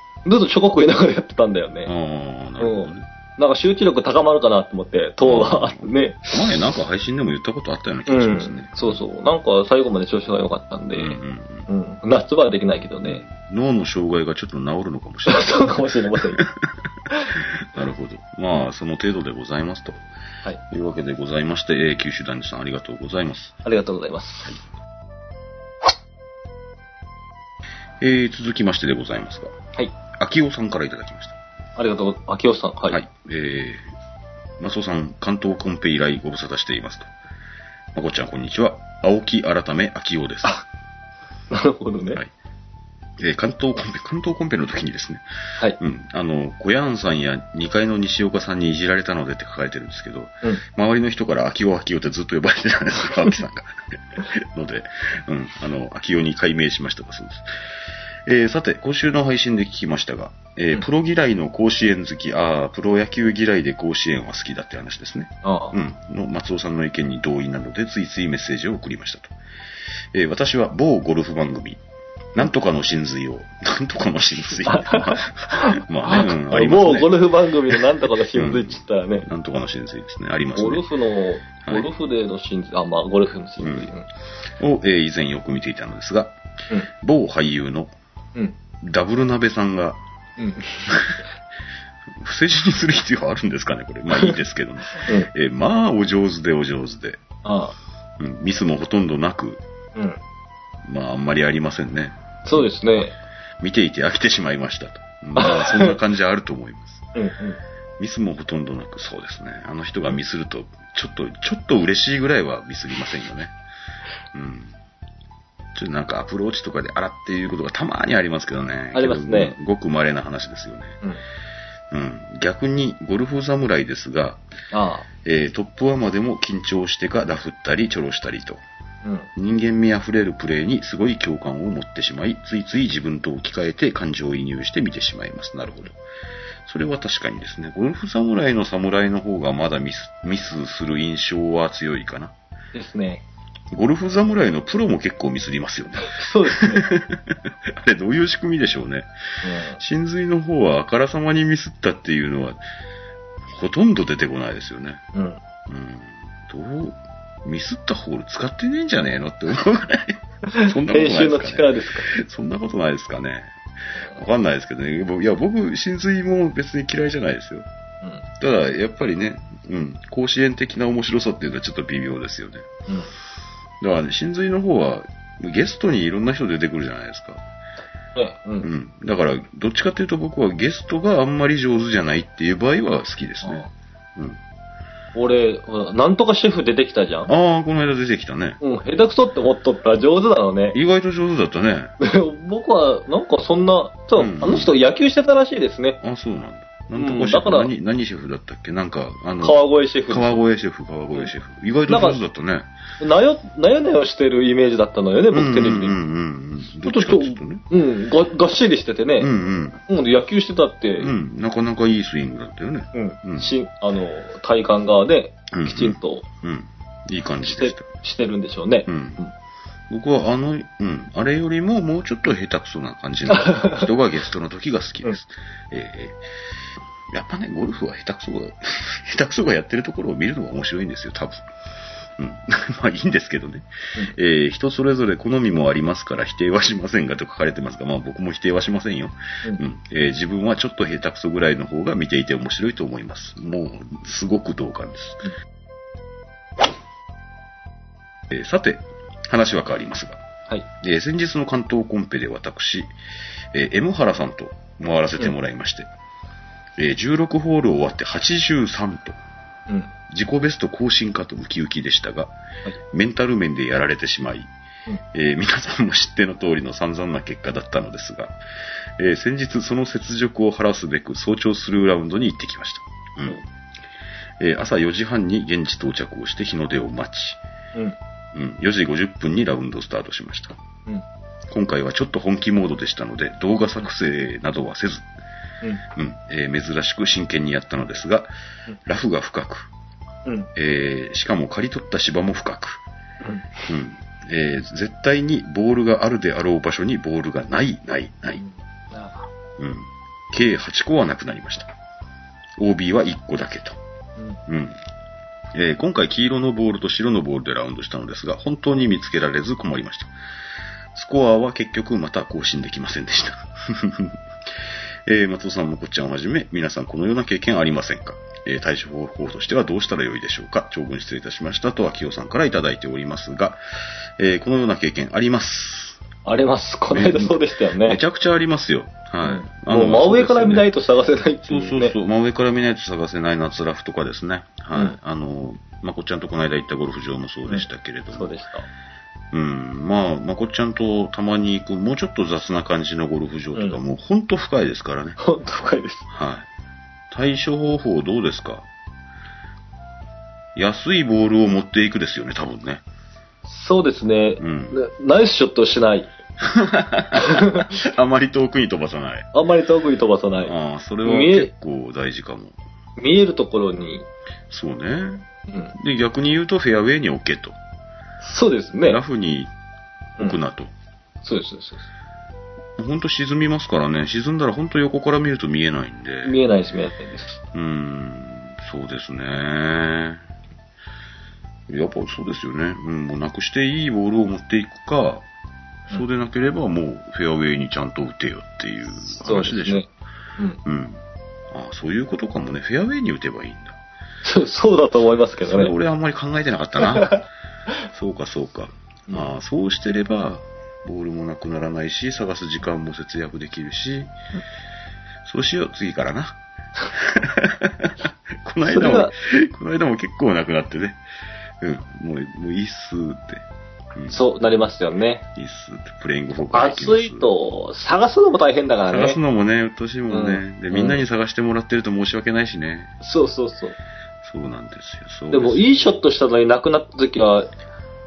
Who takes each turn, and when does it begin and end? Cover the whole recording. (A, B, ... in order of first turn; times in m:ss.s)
0:00.2-0:01.9 A
0:01.9-0:03.1 B
0:02.6-0:06.4 A
0:05.2-0:09.0 B
0:08.1-0:13.2 A
0:10.9-0:11.7 B
0:13.0-0:20.0 B
0:15.3-0:16.4 A
0:20.6-0:23.6 B
0:23.6-0:24.6 A
0:28.0-0:29.6 B
0:30.1-0:31.4 B
0:31.8-0:33.0 A
0:32.9-0:33.9 B
0:34.6-0:37.1 B
0:37.9-0:40.6 B
0:41.5-0:42.2 A
0:43.2-0:45.2 B
0:45.8-0:57.5 B
0:58.3-1:09.3 B
1:05.4-1:05.8 A
1:10.1-1:11.8 B
1:12.4-1:17.8 B
1:14.6-1:19.3 A
1:18.3-1:20.9 B
1:20.6-1:24.1 A
1:21.6-1:21.9 B
1:23.6-1:23.9 B
1:24.6-1:26.4 B
1:27.0-1:27.9 B
1:28.8-1:30.0 B
1:30.4-1:31.0 A
1:30.9-1:31.2 B
1:32.2-1:37.2 B
1:35.0-1:35.3 A
1:37.4-1:37.7 A
1:38.2-1:39.6 B
1:40.8-1:42.2 B
1:42.4-1:43.1 A
1:43.6-1:47.1 B
1:45.4-1:46.0 A
1:47.1-1:47.6 A
1:48.0-1:53.5 B
1:54.3-1:54.7 B
1:55.7-2:01.0 B
1:58.9-1:59.6 A
2:01.9-2:04.4 B
2:04.7-2:05.1 A
2:05.2-2:08.6 B
2:09.4-2:16.0 B
2:16.6-2:22.3 B
2:22.7-2:23.2 A
2:23.7-2:29.1 B
2:26.0-2:26.8 A
2:29.4-2:29.8 A
2:29.8-2:32.6 B
2:33.5-2:35.0 B
2:35.1-2:35.4 A
2:35.7-2:47.6 B
2:40.4-2:42.1 A
2:48.4-2:52.7 B
2:53.8-2:57.4 B
2:58.2-2:58.7 A
2:58.6-3:03.6 B
3:03.4-3:03.7 A
3:05.1-3:07.3 A
3:07.3-3:08.6 B
3:08.6-3:10.8 A
3:10.7-3:11.9 B
3:12.0-3:16.0 A
3:14.2-3:14.7 B
3:16.0-3:22.7 B
3:17.0-3:17.7 A
3:19.4-3:20.4 A
3:21.9-3:22.2 A
3:23.0-3:26.0 A
3:25.3-3:27.6 B
3:26.8-3:29.3 A
3:29.2-3:29.8 B
3:29.9-3:31.1 A
3:31.0-3:33.6 B
3:32.9-3:36.3 A
3:35.5-3:37.9 B
3:37.4-3:39.3 A
3:38.9-3:39.2 B
3:39.9-3:46.2 B
3:43.3-3:43.9 A
3:47.1-3:51.4 B
3:52.2-4:05.3 B
4:08.3-4:10.2 B
4:10.8-4:12.9 B
4:13.5-4:15.9 B
4:16.8-4:19.2 B
4:20.1-4:22.3 B
4:22.9-4:24.5 B
4:25.1-4:28.4 B
4:29.0-4:33.4 B
4:34.4-4:37.4 B
4:38.3-4:40.6 B
4:41.5-4:45.1 B
4:45.9-4:48.3 B
4:48.9-4:49.7 B
4:50.6-4:52.8 B
4:53.2-4:53.7 A
4:53.7-4:58.4 B
4:58.3-4:59.3 A
4:59.6-5:01.7 B
5:02.6-5:03.8 B
5:04.5-5:04.8 B
5:05.5-5:10.1 B
5:10.9-5:14.2 B
5:15.0-5:23.6 B
5:24.2-5:26.0 B
5:26.2-5:28.0 A
5:26.9-5:30.7 B
5:29.2-5:31.9 A
5:31.5-5:38.3 B
5:37.5-5:38.7 A
5:39.3-5:45.2 B
5:45.2-5:46.1 A
5:46.1-5:46.4 B
5:47.1-5:48.7 B
5:50.6-5:52.8 B
5:53.4-5:56.1 A
5:54.4-5:54.8 B
5:56.4-5:59.3 B
5:57.1-5:57.7 A
5:59.3-6:00.5 A
6:00.4-6:02.6 B
6:01.0-6:01.5 A
6:03.0-6:04.1 A
6:04.5-6:07.6 B
6:05.5-6:05.7 A
6:08.2-6:09.0 A
6:08.9-6:09.5 B
6:10.2-6:10.7 B
6:11.2-6:11.9 A
6:12.8-6:16.4 B
6:16.2-6:17.4 A
6:17.5-6:20.2 B
6:21.7-6:25.2 B
6:25.9-6:29.9 B
6:29.2-6:29.9 A
6:30.6-6:33.8 B
6:34.2-6:35.7 A
6:35.4-6:37.2 B
6:37.0-6:37.2 A
6:37.9-6:44.1 B
6:45.2-6:46.4 B
6:46.9-6:51.0 B
6:48.7-6:49.1 A
6:51.6-6:53.4 B
6:54.1-6:55.2 A
6:55.4-6:57.3 B
6:56.5-6:59.2 A
6:58.9-7:02.9 B
7:00.1-7:01.0 A
7:03.0-7:03.8 A
7:04.2-7:05.8 B
7:05.3-7:07.5 A